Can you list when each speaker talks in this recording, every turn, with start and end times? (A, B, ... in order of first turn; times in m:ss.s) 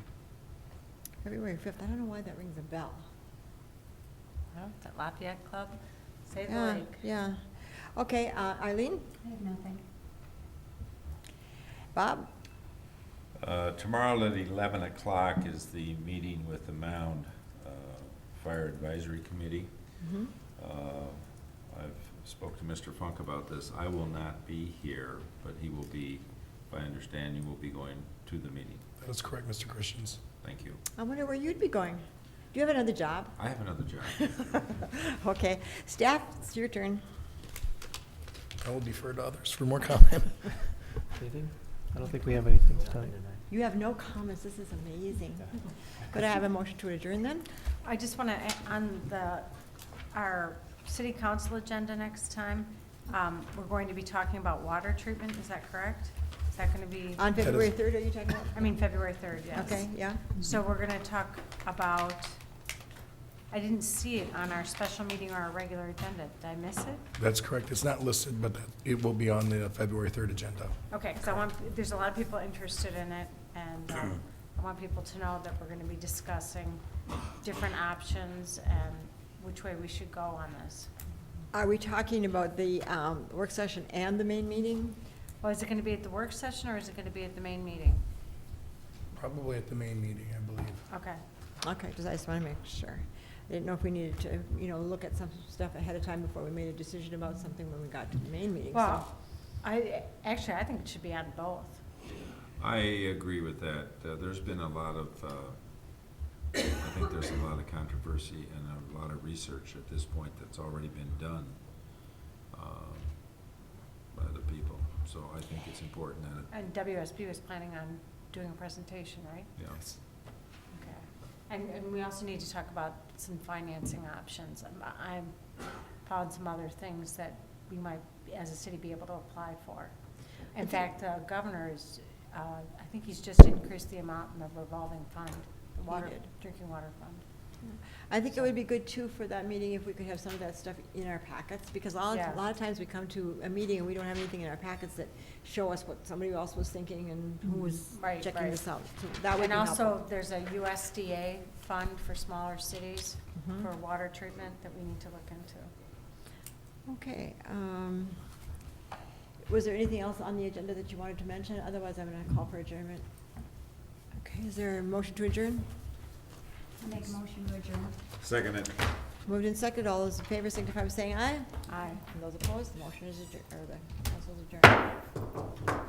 0:01.2-0:03.0 A
0:04.5-0:07.0 B
0:06.5-0:09.1 A
0:09.2-0:09.8 C
0:11.9-0:12.3 A
0:13.4-0:19.7 D
0:20.0-0:20.3 A
0:20.6-0:28.8 D
0:29.0-0:30.2 E
0:30.4-0:30.8 D
0:31.0-0:33.4 A
0:33.4-0:34.5 D
0:34.1-0:37.0 A
0:38.6-0:41.0 E
0:41.2-0:43.5 F
0:41.4-0:43.2 C
0:43.5-0:47.5 A
0:47.8-0:49.6 B
0:50.1-0:57.3 B
0:57.2-1:00.3 A
0:57.4-0:57.7 E
0:58.5-1:02.4 B
1:03.5-1:07.0 B
1:07.2-1:10.7 E
1:10.9-1:16.8 B
1:17.4-1:20.9 B
1:21.5-1:25.0 A
1:25.4-1:28.0 B
1:29.1-1:30.9 E
1:30.9-1:31.2 B
1:31.6-1:39.1 A
1:38.7-1:41.8 B
1:42.6-1:45.6 D
1:46.7-1:53.4 D
1:54.1-1:56.5 D
1:56.5-1:59.5 B
1:59.6-1:59.8 D
2:00.7-2:09.9 B
2:10.5-2:17.2 B
2:15.9-2:16.3 A
2:17.6-2:30.0 A
2:22.1-2:22.4 B
2:27.9-2:28.6 B
2:29.4-2:35.7 B
2:33.4-2:33.7 A
2:36.8-2:38.2 A
2:39.5-2:43.0 A
2:44.2-2:45.7 A
2:46.8-2:48.0 C
2:48.2-2:48.8 D
2:49.2-2:54.8 A
2:51.7-2:52.0 B